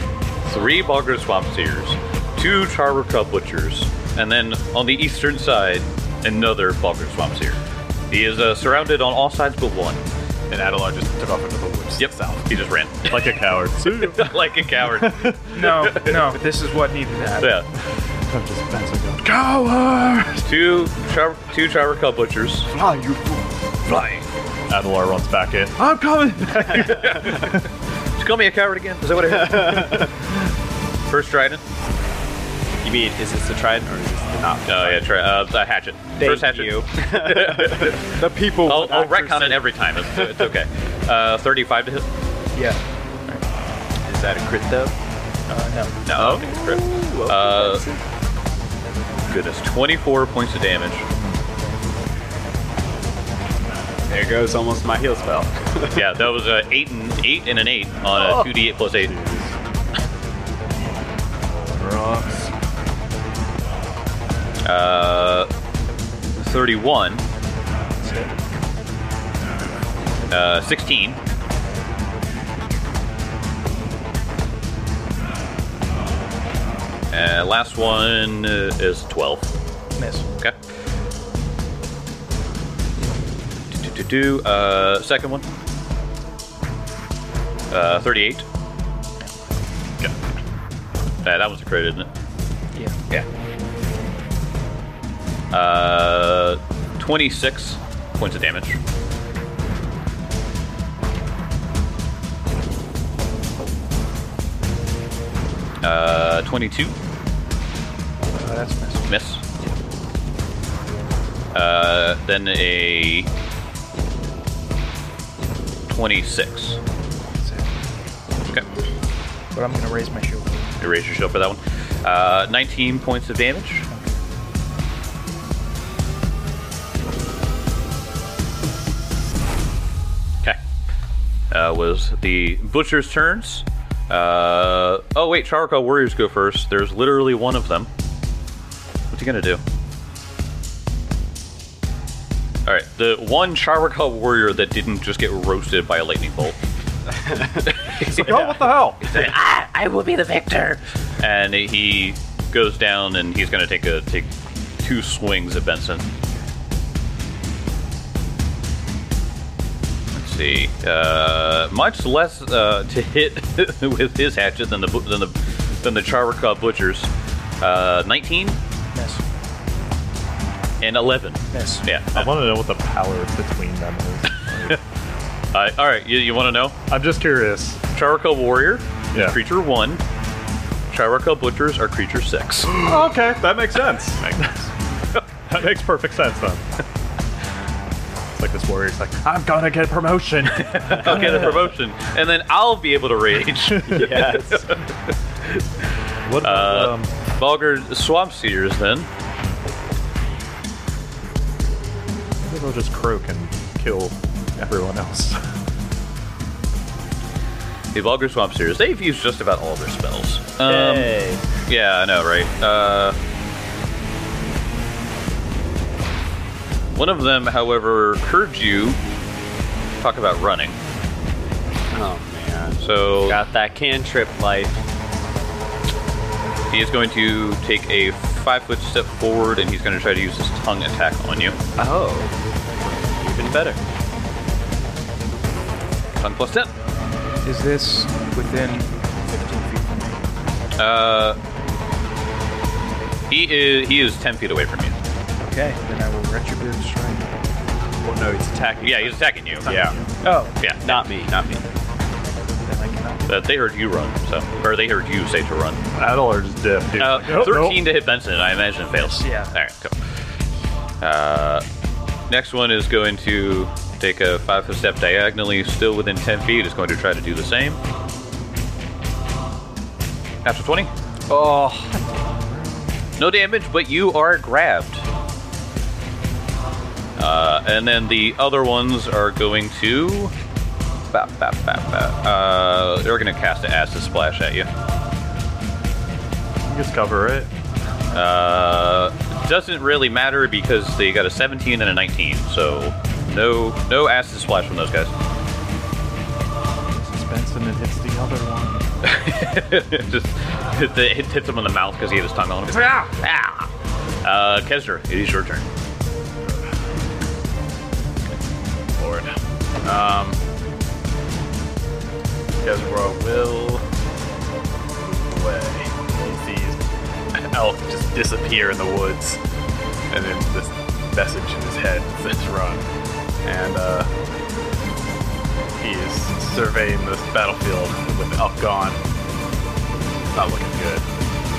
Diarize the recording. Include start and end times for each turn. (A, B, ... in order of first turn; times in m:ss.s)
0:00.4-0:10.0 A
0:10.5-0:12.6 B
0:12.0-0:13.4 A
0:13.1-0:15.8 C
0:13.9-0:16.2 A
0:15.5-0:17.6 D
0:17.4-0:17.7 A
0:18.3-0:20.4 C
0:20.4-0:22.7 A
0:22.9-0:23.4 E
0:23.8-0:24.2 A
0:24.7-0:27.6 C
0:26.7-0:27.5 A
0:28.2-0:30.1 A
0:29.5-0:30.0 E
0:31.0-0:31.6 A
0:32.8-0:35.1 E
0:34.6-0:42.0 A
0:36.2-0:40.5 E
0:42.5-0:43.4 D
0:44.0-0:44.9 E
0:45.5-0:46.0 D
0:46.0-0:47.9 A
0:46.2-0:48.0 E
0:49.3-0:51.0 A
0:54.1-0:56.0 E
0:55.9-0:59.1 A
0:59.0-0:59.5 C
1:01.8-1:02.2 C
1:04.6-1:05.5 A
1:06.4-1:07.2 A
1:08.0-1:08.3 D
1:10.3-1:11.2 A
1:17.1-1:19.5 A
1:20.0-1:20.2 D
1:23.7-1:25.5 A
1:27.7-1:28.4 A
1:31.2-1:32.1 A
1:32.7-1:33.2 D
1:35.5-1:38.8 A
1:45.8-1:46.9 A
1:48.3-1:49.1 D
1:49.1-1:49.4 A
1:51.5-1:53.3 A
1:55.9-1:56.8 A
1:57.4-1:58.0 D
1:59.5-2:00.8 D
2:00.8-2:03.9 A
2:03.9-2:04.2 D
2:11.5-2:17.9 A
2:19.1-2:19.6 A
2:22.6-2:26.6 A
2:27.6-2:36.1 A
2:28.0-2:29.1 C
2:40.1-2:47.1 A
2:47.6-2:48.6 A
2:48.9-2:49.2 D
2:50.8-2:52.3 A
2:51.5-2:51.8 D
2:52.1-2:54.8 C
2:55.5-2:56.8 A
2:56.9-2:57.8 C
2:57.9-3:00.0 A
2:59.1-2:59.4 C
3:00.9-3:02.8 A
3:02.7-3:04.7 C
3:05.4-3:06.7 C
3:08.3-3:11.7 C
3:10.6-3:14.8 A
3:13.9-3:14.8 E
3:16.2-3:17.1 C
3:16.4-3:19.1 A
3:22.4-3:25.4 C
3:27.9-3:33.2 A
3:30.6-3:31.4 E
3:36.9-3:39.0 A
3:40.0-3:40.8 A
3:41.9-3:44.8 E
3:42.8-3:43.4 A
3:46.7-3:51.6 A
3:51.8-3:53.8 E
3:56.2-3:56.7 A
3:57.4-4:00.2 D
4:00.8-4:01.4 A
4:03.3-4:05.0 A
4:05.4-4:07.3 D
4:08.0-4:10.0 E
4:08.8-4:09.7 A
4:10.2-4:10.6 D
4:10.6-4:11.0 A
4:10.8-4:11.6 E
4:12.6-4:13.3 D
4:13.3-4:15.8 A
4:15.9-4:17.8 C
4:17.0-4:19.9 A
4:19.0-4:19.6 D
4:21.0-4:21.6 A
4:22.3-4:27.8 A
4:30.4-4:30.9 A
4:31.3-4:32.0 E
4:32.1-4:32.7 C
4:33.2-4:35.0 A
4:37.2-4:40.3 A
4:41.1-4:44.7 A
4:46.6-4:47.5 C
4:48.1-4:55.1 A
4:56.9-4:58.8 C
4:59.0-5:03.7 A
5:04.2-5:05.6 A
5:06.4-5:06.7 B
5:09.0-5:10.4 B
5:12.6-5:13.8 B
5:15.0-5:16.8 B
5:17.3-5:19.4 B
5:20.1-5:22.9 B
5:23.4-5:24.1 B
5:25.8-5:29.0 B
5:30.3-5:31.0 B